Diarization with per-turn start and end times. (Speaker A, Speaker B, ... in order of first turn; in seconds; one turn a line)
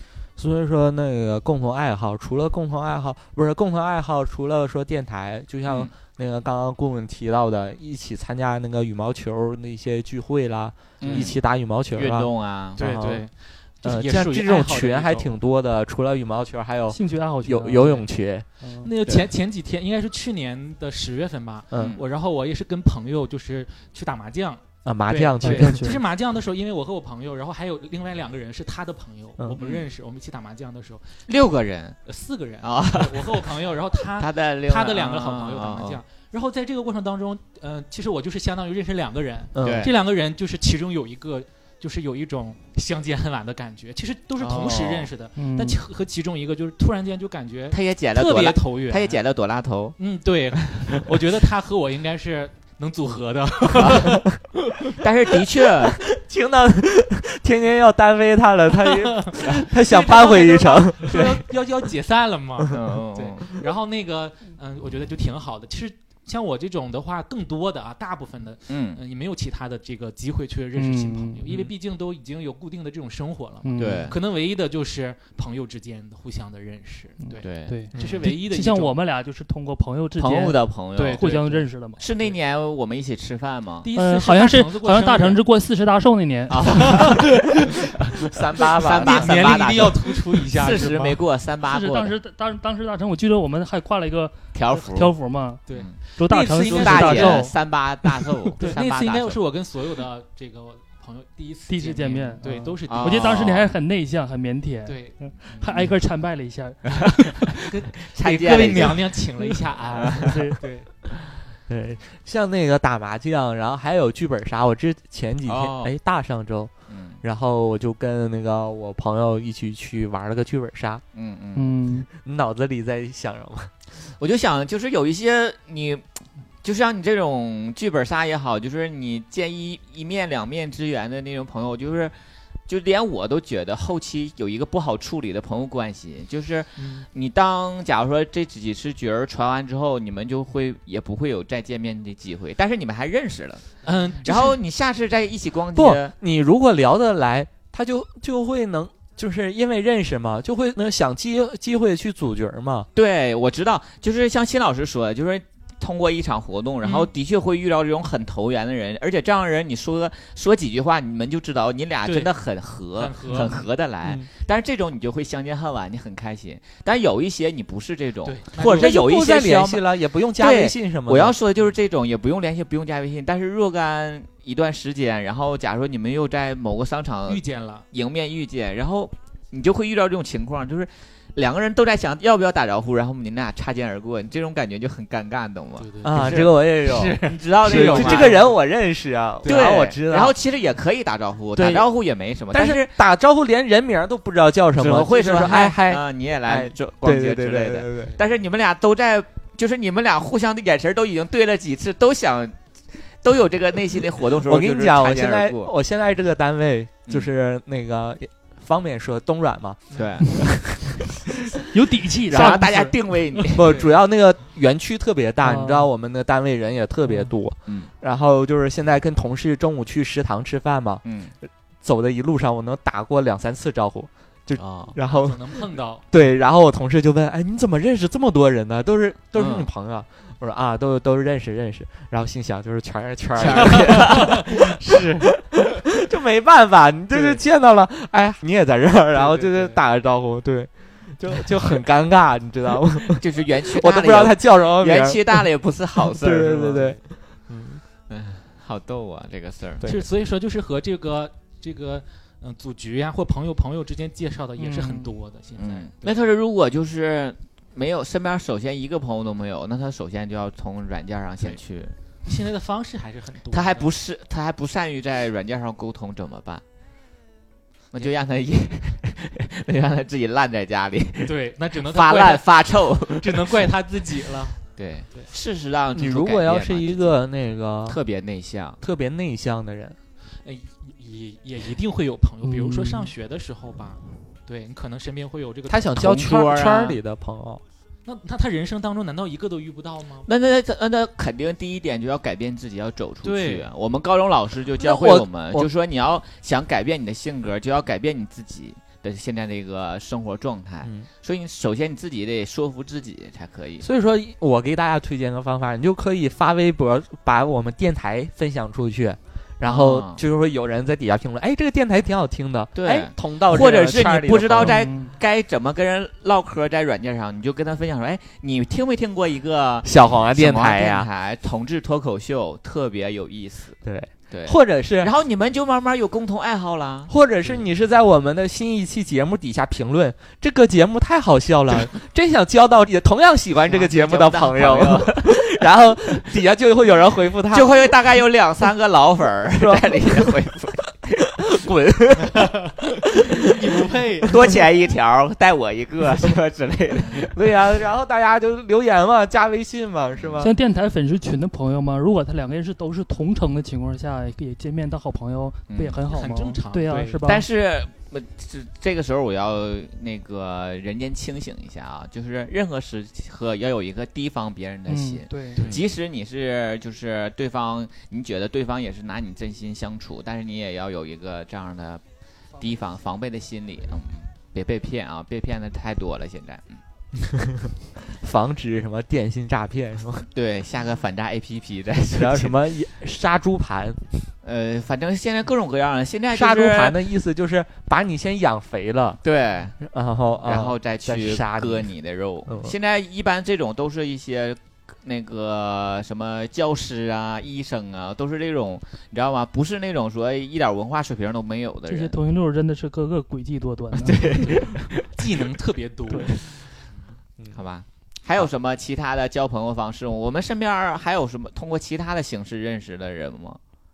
Speaker A: 0.4-13.3
Speaker B: 5.7-5.9
Speaker B: 11.0-13.0
Speaker C: 11.0-11.3
Speaker C: 12.8-15.3
Speaker A: 13.8-18.5
Speaker D: 16.9-18.9
Speaker C: 18.8-31.2
Speaker B: 21.8-22.0
Speaker A: 24.9-25.8
Speaker D: 25.4-26.0
Speaker B: 29.6-29.9
Speaker B: 31.3-32.0
Speaker C: 32.1-49.2
Speaker B: 32.6-36.0
Speaker A: 39.5-39.9
Speaker B: 39.6-40.0
Speaker B: 44.4-45.1
Speaker D: 45.4-45.8
Speaker B: 47.7-50.0
Speaker C: 50.0-54.3
Speaker B: 55.0-56.0
Speaker A: 56.0-61.4
Speaker C: 58.9-79.0
Speaker B: 61.1-61.4
Speaker B: 62.7-63.5
Speaker B: 68.7-69.0
Speaker D: 70.8-71.5
Speaker D: 73.6-74.1
Speaker B: 73.8-74.2
Speaker D: 77.2-82.0
Speaker B: 77.4-78.2
Speaker B: 80.2-83.9
Speaker C: 81.0-82.4
Speaker C: 83.8-85.4
Speaker D: 83.9-87.1
Speaker B: 86.5-87.4
Speaker C: 86.9-87.5
Speaker A: 88.3-89.5
Speaker B: 88.6-92.1
Speaker C: 88.6-91.2
Speaker D: 91.7-97.5
Speaker B: 94.5-95.1
Speaker C: 95.7-97.5
Speaker B: 95.7-96.0
Speaker B: 96.5-99.4
Speaker C: 98.6-103.6
Speaker D: 101.7-107.3
Speaker B: 102.9-103.7
Speaker C: 104.9-105.7
Speaker C: 107.7-110.9
Speaker B: 108.1-109.2
Speaker B: 109.9-110.4
Speaker D: 110.2-110.6
Speaker A: 111.7-116.7
Speaker B: 115.5-115.9
Speaker B: 116.9-117.2
Speaker A: 117.2-121.0
Speaker B: 121.1-121.8
Speaker D: 121.5-122.1
Speaker A: 122.1-123.7
Speaker B: 124.2-126.1
Speaker B: 126.6-132.1
Speaker B: 132.7-146.1
Speaker C: 136.8-137.1
Speaker C: 143.8-144.6
Speaker A: 145.8-152.9
Speaker B: 152.9-186.5
Speaker C: 156.8-157.1
Speaker C: 162.1-162.3
Speaker C: 163.0-163.7
Speaker C: 168.2-169.0
Speaker A: 168.6-171.4
Speaker C: 177.3-177.8
Speaker C: 185.8-188.6
Speaker A: 186.0-190.4
Speaker B: 187.2-188.5
Speaker C: 189.4-189.8
Speaker B: 189.4-192.9
Speaker A: 191.6-191.9
Speaker A: 192.5-198.2
Speaker B: 194.8-202.6
Speaker B: 203.2-205.7
Speaker A: 204.4-211.0
Speaker B: 209.9-210.6
Speaker D: 211.7-213.0
Speaker B: 212.3-213.8
Speaker A: 212.3-212.7
Speaker A: 213.5-221.0
Speaker C: 213.7-213.9
Speaker D: 215.4-215.9
Speaker B: 221.1-221.3
Speaker A: 221.8-245.5
Speaker B: 224.6-225.0
Speaker C: 225.0-226.0
Speaker B: 229.3-229.7
Speaker B: 233.4-234.5
Speaker C: 233.6-235.3
Speaker C: 239.1-239.8
Speaker B: 243.1-247.0
Speaker A: 246.0-247.8
Speaker B: 248.1-249.9
Speaker C: 249.8-256.1
Speaker D: 254.6-255.1
Speaker B: 255.6-261.9
Speaker C: 262.2-263.9
Speaker B: 263.5-266.6
Speaker B: 267.9-273.6
Speaker C: 271.2-272.5
Speaker C: 273.1-274.6
Speaker B: 274.8-277.2
Speaker A: 275.9-278.0
Speaker B: 277.9-278.8
Speaker A: 278.8-280.0
Speaker C: 280.4-285.9
Speaker D: 282.4-283.1
Speaker A: 285.7-287.6
Speaker B: 286.0-287.0
Speaker C: 288.1-290.3
Speaker B: 290.3-303.9
Speaker C: 293.2-293.7
Speaker A: 294.8-295.7
Speaker A: 303.8-314.8
Speaker B: 309.6-310.2
Speaker B: 312.8-323.8
Speaker D: 314.6-315.1
Speaker A: 319.8-321.1
Speaker A: 323.9-325.1
Speaker B: 324.3-327.1
Speaker A: 327.1-337.8
Speaker B: 333.7-335.4
Speaker B: 337.5-341.3
Speaker A: 339.6-340.4
Speaker A: 341.4-342.7
Speaker C: 343.5-344.4
Speaker B: 344.3-347.3
Speaker A: 347.3-350.5
Speaker B: 350.1-350.5
Speaker D: 350.4-357.4
Speaker B: 355.7-356.0
Speaker C: 356.1-357.2
Speaker B: 357.2-372.0
Speaker D: 364.9-365.7
Speaker C: 365.6-365.8
Speaker B: 372.6-376.8
Speaker A: 377.6-380.3
Speaker B: 380.3-382.6
Speaker A: 382.1-384.3
Speaker B: 384.4-387.0
Speaker A: 386.3-389.2
Speaker B: 389.2-389.8
Speaker A: 389.8-391.9
Speaker B: 390.4-402.2
Speaker A: 392.5-392.8
Speaker D: 401.9-404.6
Speaker B: 404.1-405.0
Speaker C: 405.1-406.9
Speaker B: 407.5-413.6